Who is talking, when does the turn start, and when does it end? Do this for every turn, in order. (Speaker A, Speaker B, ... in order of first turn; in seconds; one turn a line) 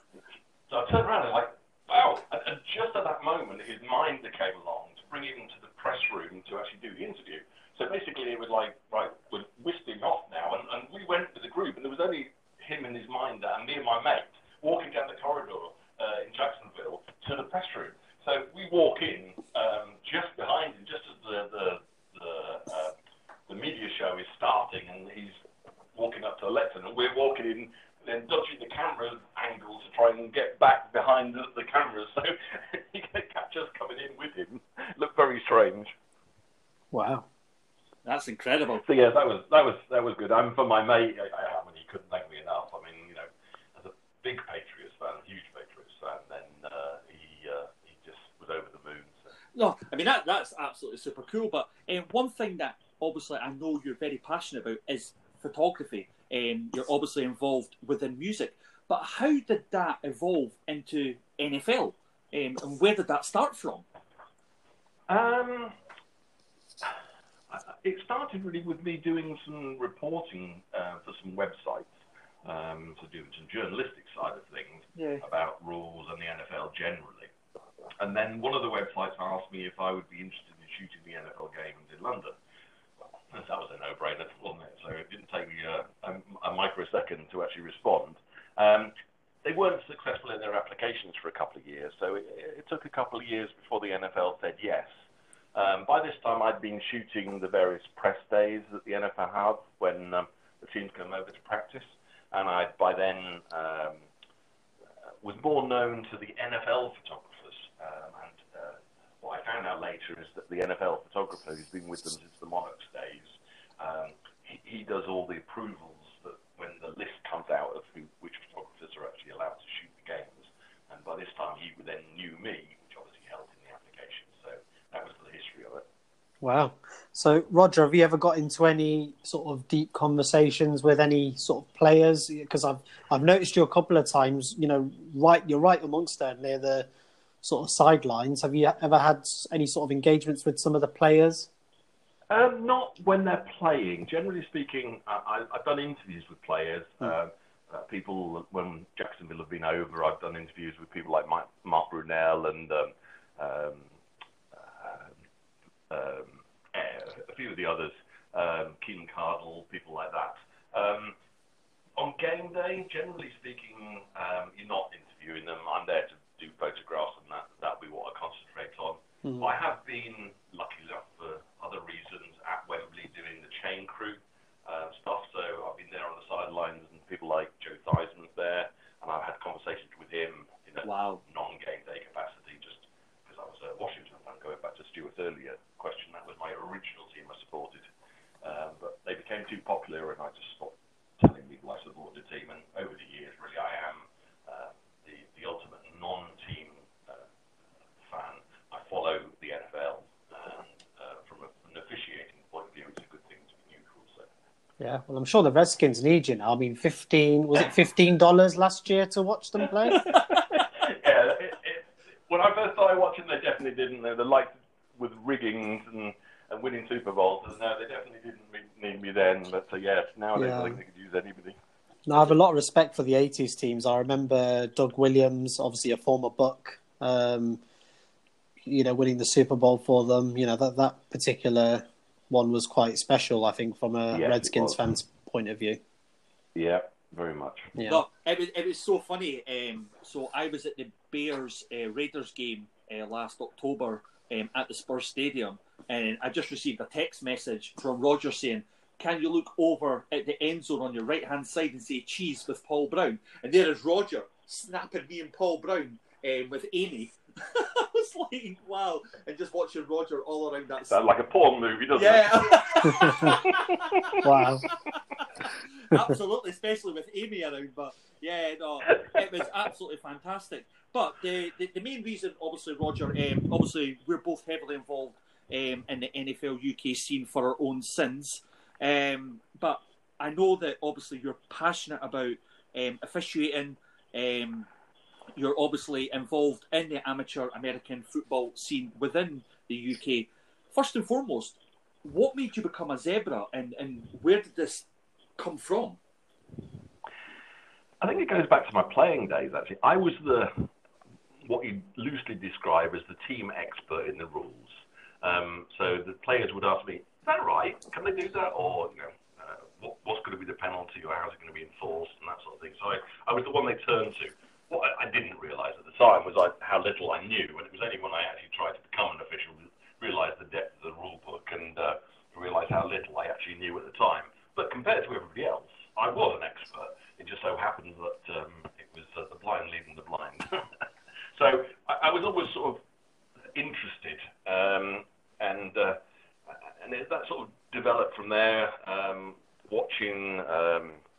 Speaker A: 0.7-22.9
Speaker A: 23.5-25.4
Speaker A: 25.9-35.9
Speaker B: 36.9-37.2
Speaker C: 38.0-38.8
Speaker A: 38.8-49.1
Speaker C: 49.5-63.8
Speaker A: 65.1-65.7
Speaker A: 67.5-71.9
Speaker A: 72.4-77.3
Speaker C: 74.9-75.2
Speaker A: 78.0-82.3
Speaker A: 83.3-88.9
Speaker A: 89.4-94.9
Speaker A: 95.5-104.0
Speaker A: 105.2-125.8
Speaker B: 126.4-136.9
Speaker B: 137.4-141.5
Speaker A: 142.3-153.9
Speaker A: 154.5-155.1
Speaker A: 155.9-161.2
Speaker A: 162.0-187.9
Speaker C: 180.8-181.2
Speaker A: 188.4-197.2
Speaker A: 198.0-204.3
Speaker B: 204.8-210.1
Speaker C: 210.1-210.4
Speaker A: 210.3-221.6
Speaker B: 220.3-220.8
Speaker B: 222.1-227.6
Speaker B: 228.6-235.8
Speaker A: 234.1-234.8
Speaker A: 236.5-237.7
Speaker B: 237.8-238.0
Speaker C: 237.9-261.0
Speaker A: 260.9-263.7
Speaker C: 261.9-284.7
Speaker B: 263.0-263.3
Speaker B: 264.2-264.6
Speaker C: 285.4-294.9
Speaker C: 295.4-296.0
Speaker A: 298.0-300.7
Speaker A: 301.4-330.6
Speaker A: 331.3-332.8
Speaker A: 333.5-336.0
Speaker A: 336.5-341.0